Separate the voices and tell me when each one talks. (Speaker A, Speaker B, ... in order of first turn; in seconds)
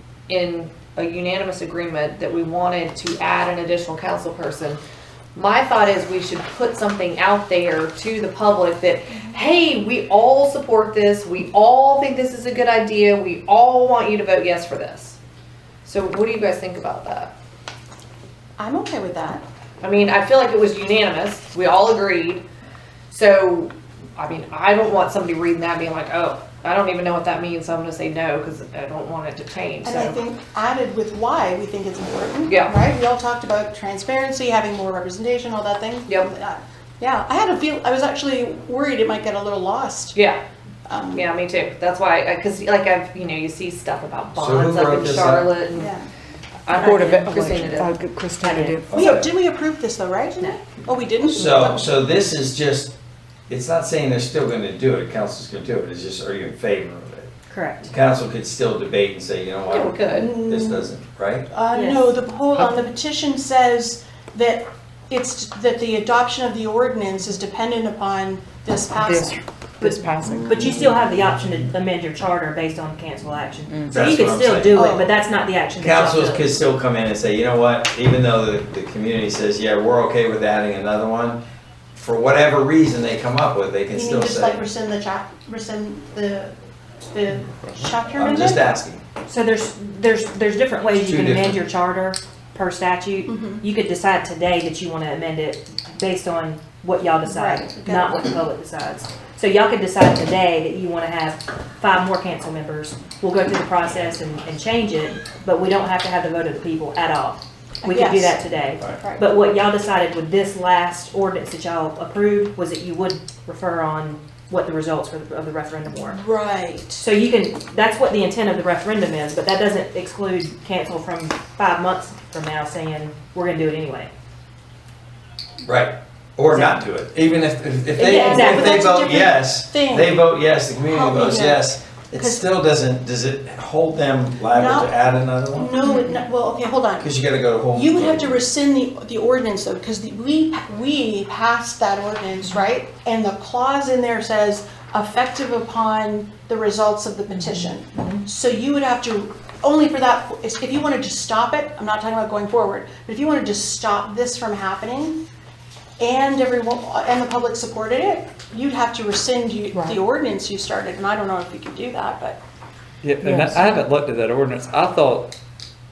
Speaker A: 0.3-4.8, 5.3-15.2, 15.8-17.3, 19.8-22.5, 23.1-30.2, 32.5-32.8, 36.1-36.3, 40.1-40.4, 41.1-46.0, 46.7-48.0, 59.7-60.4
Speaker B: 18.6-19.4, 29.8-40.2, 40.9-41.3, 45.7-46.1, 48.9-51.9, 60.1-60.9, 61.5-69.4, 74.7-75.1, 83.9-88.7, 93.3-93.7, 97.2-98.4, 107.8-109.3, 116.0-117.1, 128.0-130.3, 130.8-132.4, 134.5-134.9, 135.5-137.1, 137.7-155.2, 156.0-162.4
Speaker C: 44.4-45.5, 48.9-49.3, 51.3-53.0, 53.5-61.5, 73.9-74.8, 75.8-81.4, 82.0-84.6, 88.1-89.0, 91.0-91.6, 125.7-135.7, 137.0-138.4
Speaker D: 46.7-47.4, 48.4-48.9, 57.5-57.9, 61.7-62.1, 69.8-76.5, 89.3-116.2, 117.0-124.1, 126.5-126.8, 128.0-128.9, 135.8-136.2, 147.3-148.2
Speaker E: 46.8-49.1, 62.5-62.9, 68.9-70.8, 73.7-74.0, 159.7-160.0, 163.2-163.5
Speaker F: 163.0-165.3